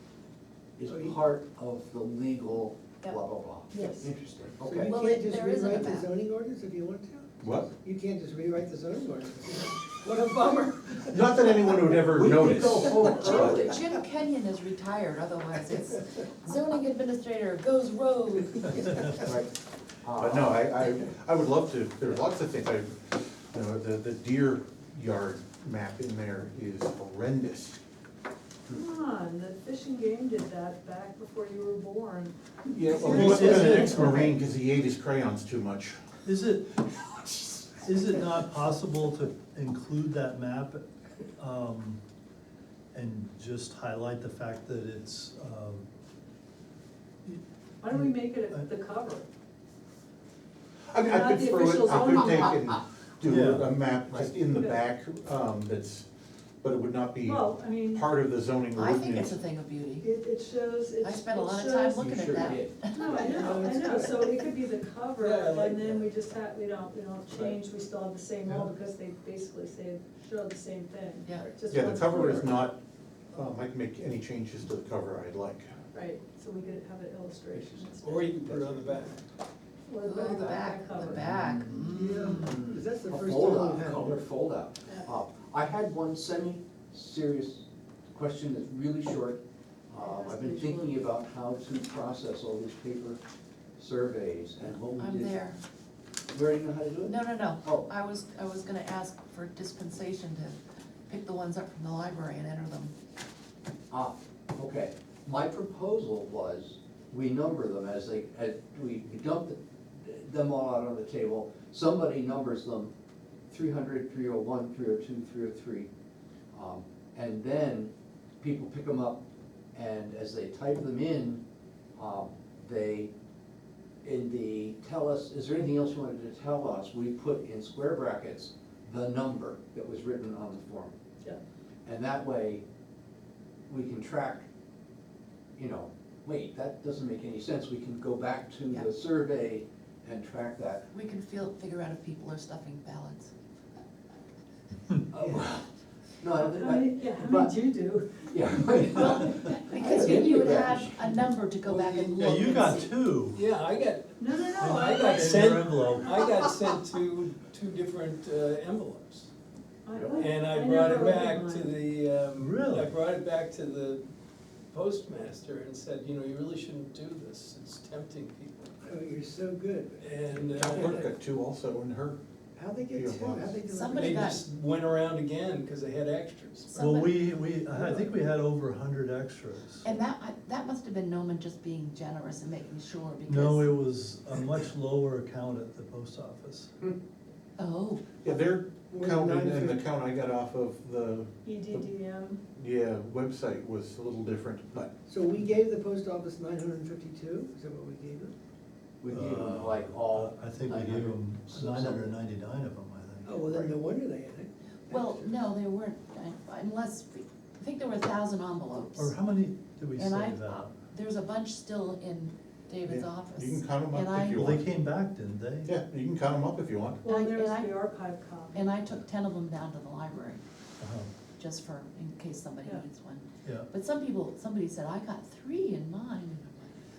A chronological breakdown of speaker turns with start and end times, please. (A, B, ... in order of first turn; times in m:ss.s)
0:00.8-0:04.9 A
0:00.9-0:01.2 B
0:03.7-0:04.1 C
0:04.6-0:11.7 B
0:04.8-0:06.1 D
0:07.4-0:07.7 E
0:11.1-0:13.6 E
0:12.1-0:13.8 A
0:13.1-0:19.1 D
0:19.1-0:19.5 A
0:20.0-0:20.6 A
0:20.2-0:27.8 E
0:28.7-0:34.3 C
0:32.7-0:36.0 E
0:32.9-0:34.3 F
0:36.2-0:36.8 F
0:37.7-0:40.8 F
0:41.4-0:42.0 F
0:42.9-0:45.9 F
0:47.2-0:48.6 F
0:47.8-0:49.3 C
0:50.9-0:56.1 E
0:51.0-0:52.6 C
0:53.2-0:53.7 F
0:54.4-0:54.8 C
0:56.6-0:59.4 E
0:57.2-0:58.1 C
0:58.7-1:00.1 D
1:00.0-1:02.0 C
1:01.0-1:03.2 D
1:01.9-1:02.8 A
1:02.9-1:12.7 C
1:03.1-1:04.2 B
1:05.2-1:06.0 G
1:07.3-1:07.6 G
1:11.2-1:11.5 D
1:11.7-1:12.8 E
1:13.3-1:15.7 E
1:15.9-1:18.5 C
1:17.5-1:17.8 A
1:18.0-1:19.2 G
1:19.8-1:21.2 C
1:20.0-1:22.7 D
1:21.0-1:33.2 A
1:21.9-1:24.2 B
1:24.8-1:25.2 C
1:30.0-1:31.0 C
1:33.8-1:35.4 A
1:34.8-1:35.6 D
1:36.3-1:37.8 A
1:37.0-1:42.9 D
1:43.9-1:52.9 A
1:53.5-1:55.9 A
1:56.5-1:59.2 A
1:59.7-2:01.4 A
2:02.0-2:03.1 A
2:04.0-2:11.0 A
2:11.8-2:12.6 A
2:13.7-2:14.5 A
2:15.6-2:20.8 A
2:20.9-2:23.3 D
2:25.1-2:25.6 A
2:26.2-2:27.5 A
2:26.4-2:29.1 C
2:28.3-2:31.2 A
2:28.9-2:32.9 D
2:31.6-2:32.2 G
2:32.2-2:33.4 F
2:33.3-2:39.3 G
2:34.2-2:35.4 C
2:34.6-2:36.2 F
2:39.8-2:41.8 C
2:40.2-2:44.0 G
2:42.4-2:42.9 F
2:44.7-2:48.7 G
2:48.8-2:51.0 B
2:50.0-2:51.0 G
2:50.5-2:52.2 E
2:52.6-2:54.4 B
2:52.9-2:53.6 E
2:53.7-2:54.4 D
2:54.0-2:56.7 G
2:56.6-2:57.3 D
2:56.8-2:59.8 F
2:59.8-3:03.7 D
3:03.3-3:06.7 F
3:07.6-3:08.1 D
3:08.2-3:11.9 E
3:08.9-3:09.8 B
3:11.4-3:12.4 C
3:12.6-3:14.9 E
3:15.1-3:18.3 B
3:19.0-3:22.1 A
3:19.1-3:23.4 F
3:23.2-3:25.3 B
3:23.5-3:23.7 A
3:24.9-3:29.1 D
3:29.0-3:30.8 F
3:30.0-3:34.4 D
3:32.8-3:34.7 E
3:34.3-3:35.7 F
3:35.6-3:37.0 E
3:37.0-3:38.7 C
3:37.0-3:37.8 D
3:38.5-3:40.4 D
3:40.8-3:41.1 F
3:41.4-3:46.8 D